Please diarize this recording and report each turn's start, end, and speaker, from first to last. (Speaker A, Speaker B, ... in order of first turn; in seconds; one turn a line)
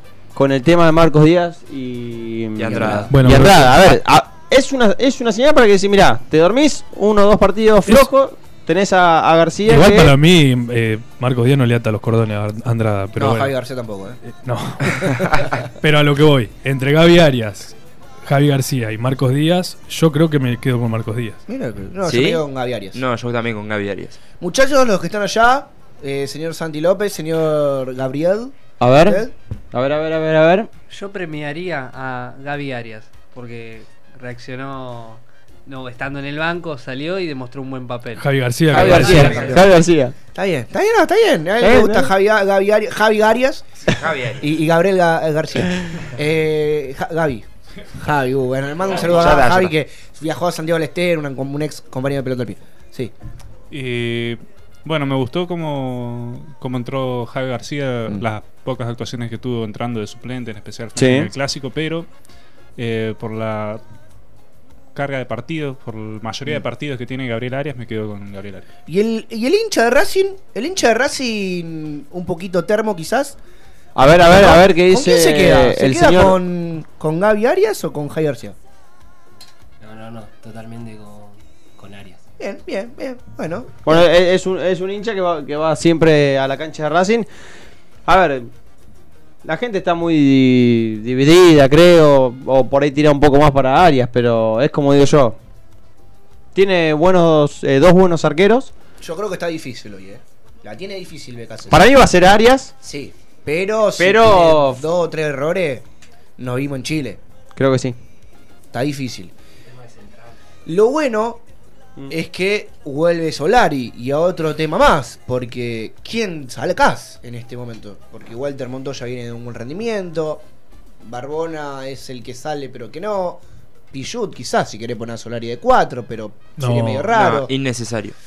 Speaker A: 0.3-10.2
Speaker B: 2.6-3.2
Speaker C: 3.1-4.0
Speaker C: 9.7-13.5
Speaker D: 13.2-14.2
Speaker C: 14.2-17.7
Speaker C: 18.2-21.4
Speaker D: 21.5-23.0
Speaker B: 22.0-24.2
Speaker D: 24.4-29.3
Speaker A: 28.8-30.7
Speaker E: 30.9-38.3
Speaker C: 38.1-39.5
Speaker A: 38.7-40.1
Speaker B: 38.7-39.6
Speaker D: 39.0-39.6
Speaker D: 40.3-43.6
Speaker A: 41.6-42.1
Speaker B: 43.9-44.4
Speaker D: 44.3-53.1
Speaker B: 49.0-49.7
Speaker A: 49.2-49.5
Speaker F: 53.7-62.1
Speaker A: 60.9-61.3
Speaker F: 62.8-63.8
Speaker F: 64.9-68.6
Speaker D: 68.9-73.4
Speaker A: 73.9-76.4
Speaker D: 74.2-78.5
Speaker G: 79.8-82.2
Speaker D: 82.4-84.0
Speaker A: 83.8-87.3
Speaker A: 88.1-88.5
Speaker A: 89.4-95.4
Speaker A: 96.5-98.7
Speaker D: 99.0-101.9
Speaker A: 101.7-102.7
Speaker D: 102.8-105.8
Speaker A: 104.0-104.8
Speaker D: 106.4-107.2
Speaker A: 107.5-108.0
Speaker D: 108.7-109.3
Speaker G: 109.7-110.3
Speaker D: 110.7-111.4
Speaker D: 112.1-120.4
Speaker D: 121.0-127.5
Speaker C: 126.6-127.1
Speaker B: 127.1-128.1